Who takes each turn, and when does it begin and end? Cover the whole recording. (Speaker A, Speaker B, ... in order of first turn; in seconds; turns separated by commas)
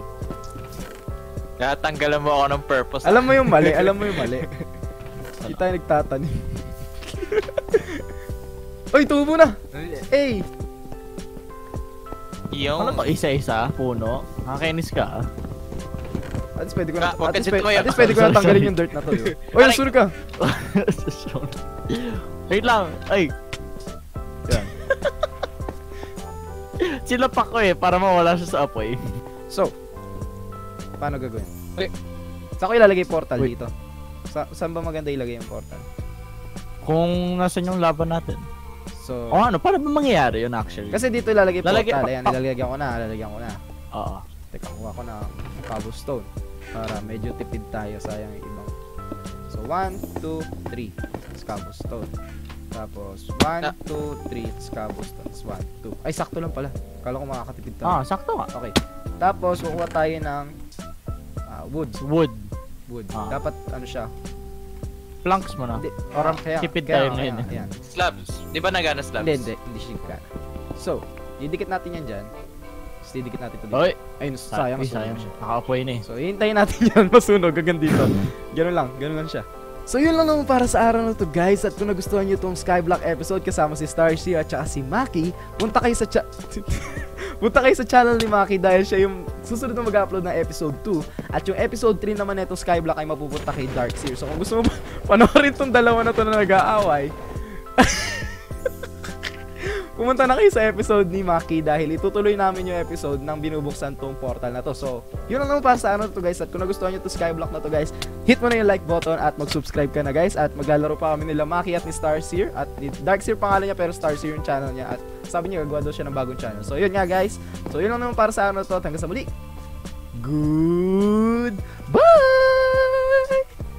Speaker A: 1.6-4.2, Speaker B: 3.0-4.5, Speaker B: 5.4-8.0, Speaker B: 8.9-9.6, Speaker A: 9.7-10.1, Speaker B: 10.1-10.4, Speaker A: 12.5-13.1, Speaker C: 12.8-15.3, Speaker B: 16.6-20.1, Speaker A: 17.0-18.3, Speaker C: 17.8-18.8, Speaker A: 19.1-19.9, Speaker C: 20.4-23.3, Speaker C: 24.5-24.7, Speaker B: 24.5-25.1, Speaker C: 27.0-29.1, Speaker B: 31.0-31.5, Speaker B: 32.6-33.7, Speaker B: 34.3-35.9, Speaker C: 36.9-38.4, Speaker B: 39.0-39.4, Speaker C: 39.3-41.0, Speaker B: 40.9-43.6, Speaker C: 41.6-42.4, Speaker C: 43.9-44.2, Speaker B: 44.5-48.8, Speaker B: 49.5-52.1, Speaker B: 52.7-58.0, Speaker C: 57.8-58.5, Speaker B: 58.5-60.5, Speaker B: 61.5-62.0, Speaker C: 62.0-62.5, Speaker B: 62.9-64.1, Speaker C: 65.2-67.6, Speaker B: 65.7-67.7, Speaker A: 67.8-69.5, Speaker B: 69.2-72.3, Speaker B: 73.0-75.3, Speaker C: 74.5-76.0, Speaker B: 76.0-97.1, Speaker B: 97.8-98.5, Speaker B: 100.0-119.3, Speaker B: 120.2-123.4